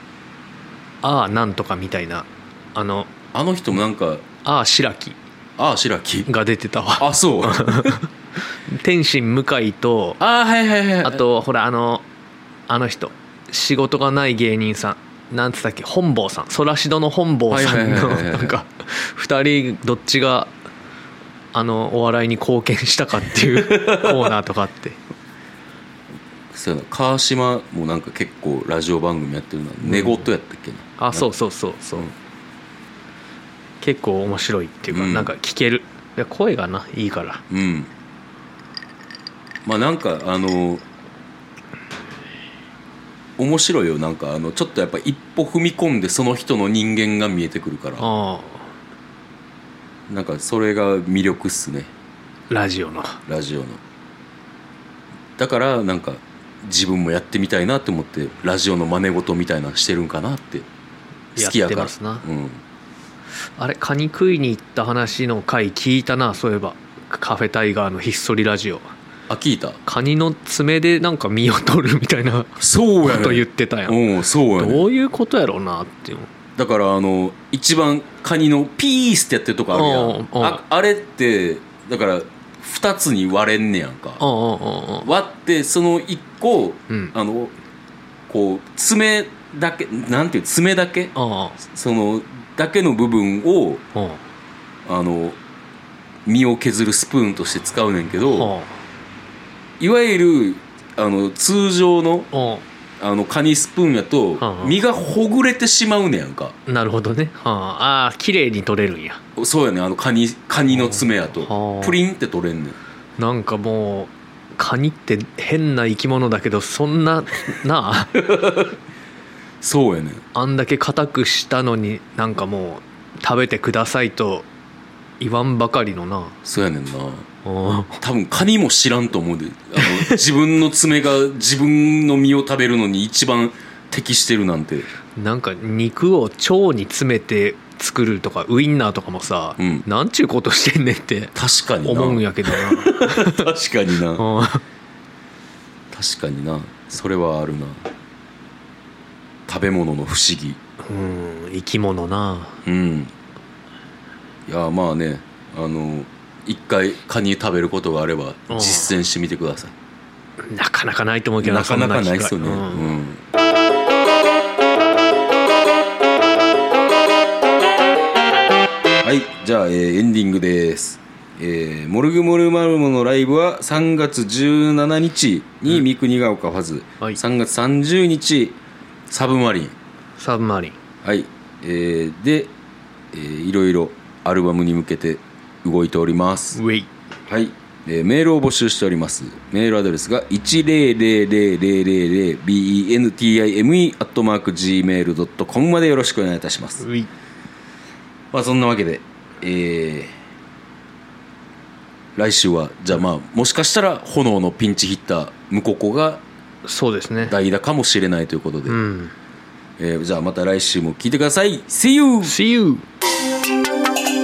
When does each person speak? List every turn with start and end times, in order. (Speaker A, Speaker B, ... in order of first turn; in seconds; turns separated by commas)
Speaker A: 1.0-3.1, Speaker B: 3.3-4.2, Speaker A: 4.4-5.2, Speaker B: 5.6-6.3, Speaker A: 6.3-8.1, Speaker B: 7.0-8.0, Speaker A: 8.7-10.2, Speaker B: 10.2-11.2, Speaker A: 11.0-12.0, Speaker A: 12.7-20.5, Speaker B: 17.5-18.5, Speaker A: 21.5-25.0, Speaker B: 23.3-24.3, Speaker B: 26.5-31.2, Speaker A: 29.8-30.3, Speaker A: 31.0-32.1, Speaker A: 33.8-37.4, Speaker B: 34.9-35.3, Speaker B: 37.5-37.9, Speaker B: 39.6-40.8, Speaker B: 43.4-48.1, Speaker A: 48.0-48.7, Speaker B: 50.1-51.9, Speaker A: 52.5-53.2, Speaker B: 53.3-53.8, Speaker B: 55.4-60.6, Speaker B: 61.4-62.6, Speaker A: 61.4-62.2, Speaker A: 63.6-68.9, Speaker B: 69.3-69.8, Speaker A: 69.8-74.0, Speaker B: 72.6-74.9, Speaker A: 74.5-76.3, Speaker B: 76.5-84.2, Speaker A: 79.7-80.6, Speaker A: 84.2-85.1, Speaker B: 85.0-87.5, Speaker B: 88.3-93.8, Speaker A: 91.1-91.6, Speaker A: 93.9-94.2, Speaker B: 94.8-95.4, Speaker B: 96.2-98.5, Speaker A: 98.3-98.7, Speaker B: 99.8-102.3, Speaker A: 102.3-102.6, Speaker B: 103.0-106.5, Speaker A: 104.4-104.8, Speaker A: 106.7-109.2, Speaker B: 109.4-112.8, Speaker A: 110.7-112.0, Speaker A: 113.2-118.2, Speaker B: 118.2-118.7, Speaker B: 119.6-120.2, Speaker A: 120.3-124.5, Speaker A: 125.2-126.4, Speaker B: 126.4-127.2, Speaker A: 127.4-128.0, Speaker B: 128.0-134.9, Speaker A: 129.8-130.2, Speaker A: 135.2-141.3, Speaker B: 139.6-139.8, Speaker B: 141.3-144.2, Speaker A: 141.8-143.5, Speaker A: 144.2-144.6, Speaker B: 145.9-147.9, Speaker B: 149.5-150.6, Speaker A: 150.8-152.6, Speaker B: 152.6-153.1, Speaker B: 154.4-159.7, Speaker A: 158.5-158.9, Speaker A: 160.4-163.0, Speaker B: 161.4-163.2, Speaker B: 169.0-178.6, Speaker B: 179.1-179.7, Speaker A: 180.2-180.8, Speaker B: 181.0-182.5, Speaker B: 183.1-186.6, Speaker A: 186.5-186.9, Speaker B: 187.3-196.8, Speaker A: 196.8-197.1, Speaker B: 198.3-200.1, Speaker B: 202.2-206.2, Speaker A: 206.6-207.3, Speaker B: 207.2-208.8, Speaker A: 208.7-209.1, Speaker B: 209.8-212.3, Speaker A: 212.2-212.8